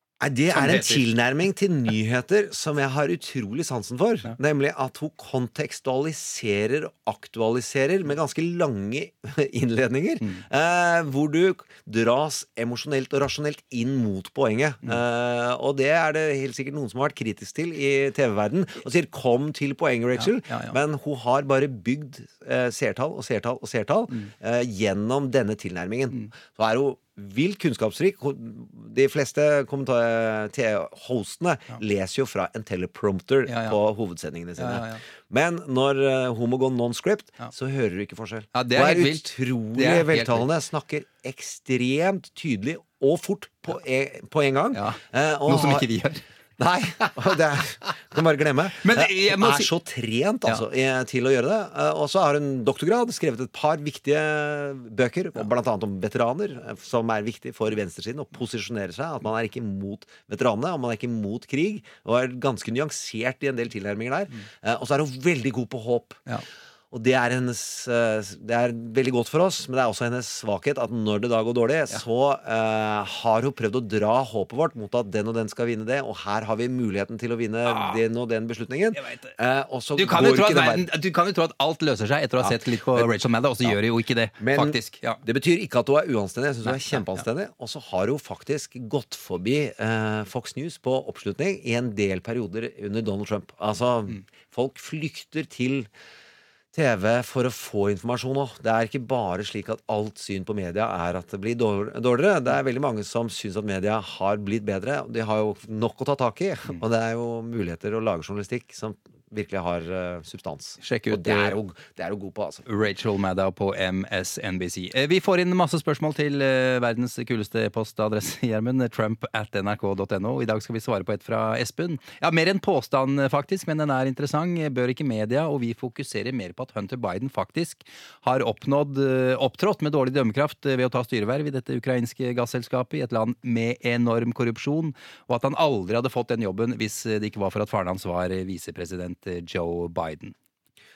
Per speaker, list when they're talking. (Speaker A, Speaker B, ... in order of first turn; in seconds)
Speaker A: 0.2-45.9, 46.6-66.3, 66.9-80.9, 82.4-83.1, 84.4-95.9, 96.7-112.7
Speaker B: 0.5-1.1, 20.2-20.8, 33.5-33.8, 34.6-35.0, 38.5-40.5, 44.7-46.2, 48.8-49.7, 77.7-78.0, 79.0-79.3, 80.0-85.2, 86.7-87.2, 110.8-111.6, 112.7-140.3